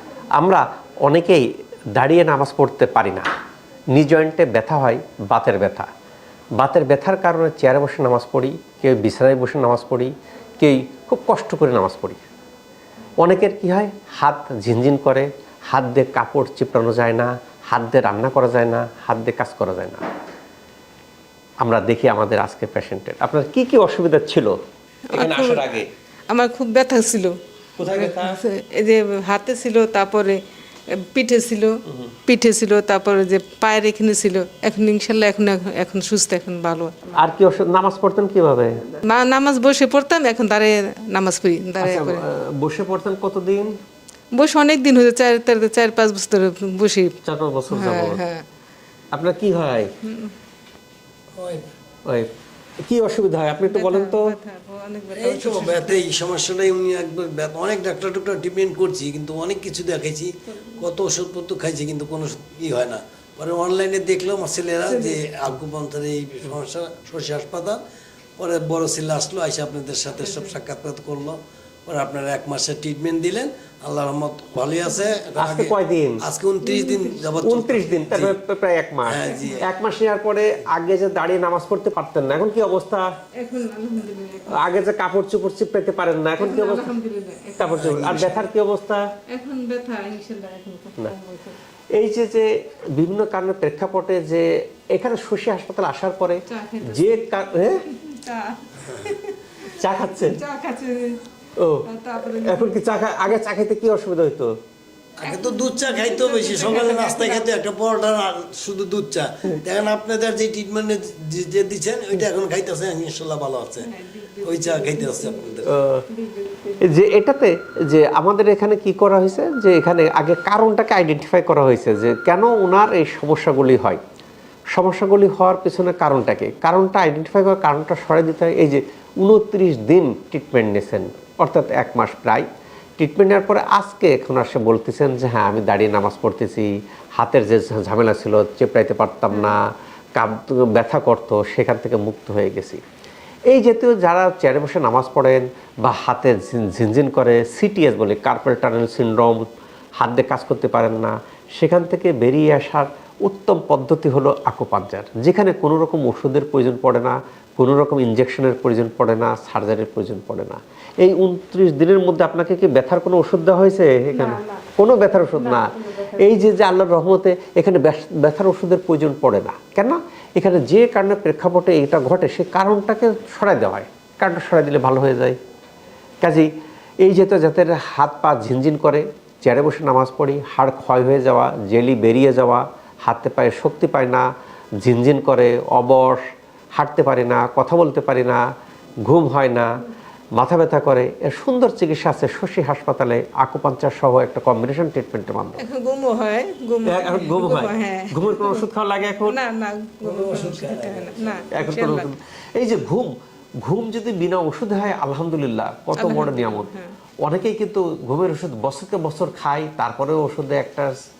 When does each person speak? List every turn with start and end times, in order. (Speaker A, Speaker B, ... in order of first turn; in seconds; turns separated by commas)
Speaker A: 0.4-3.3, Speaker A: 3.9-5.9, Speaker A: 6.6-12.2, Speaker A: 13.2-20.0, Speaker A: 21.6-24.6, Speaker B: 25.1-25.7, Speaker A: 25.1-25.9, Speaker B: 26.3-30.4, Speaker A: 27.8-28.4, Speaker B: 30.9-36.9, Speaker A: 37.1-38.8, Speaker B: 39.0-42.2, Speaker A: 41.8-43.7, Speaker B: 44.3-47.1, Speaker A: 47.2-48.2, Speaker B: 47.7-48.4, Speaker A: 49.1-49.9, Speaker B: 50.0-50.3, Speaker C: 51.3-51.6, Speaker A: 52.8-54.3, Speaker B: 53.7-56.0, Speaker C: 55.1-67.8, Speaker B: 60.5-60.8, Speaker B: 64.9-65.2, Speaker C: 68.4-78.3, Speaker B: 70.1-70.5, Speaker A: 75.3-76.2, Speaker B: 76.6-77.2, Speaker A: 77.4-83.1, Speaker C: 79.1-79.7, Speaker B: 79.3-79.6, Speaker B: 83.3-84.6, Speaker A: 84.5-86.9, Speaker B: 86.4-88.4, Speaker A: 87.6-89.1, Speaker C: 87.8-88.5, Speaker B: 89.3-91.5, Speaker A: 91.9-97.8, Speaker B: 96.5-101.2, Speaker C: 98.8-99.1, Speaker A: 99.8-100.4, Speaker A: 101.5-104.5, Speaker B: 101.8-102.8, Speaker C: 105.2-113.9, Speaker B: 105.2-107.6, Speaker B: 113.8-115.6, Speaker C: 114.4-115.7, Speaker A: 115.7-116.0, Speaker B: 116.1-116.9, Speaker A: 116.8-124.0, Speaker A: 124.7-132.4, Speaker A: 133.0-139.6, Speaker B: 139.3-139.6, Speaker A: 140.2-142.8, Speaker A: 143.5-149.4, Speaker A: 150.0-175.4, Speaker B: 164.1-164.7, Speaker B: 165.3-166.3, Speaker A: 176.2-176.5, Speaker A: 177.0-184.3, Speaker A: 184.8-186.2, Speaker A: 186.8-188.4, Speaker A: 189.0-189.7, Speaker A: 190.3-195.6, Speaker B: 195.6-198.7, Speaker A: 196.8-199.4, Speaker B: 199.2-202.1, Speaker C: 200.0-201.4, Speaker A: 201.5-206.7, Speaker B: 205.9-206.9, Speaker A: 207.2-210.9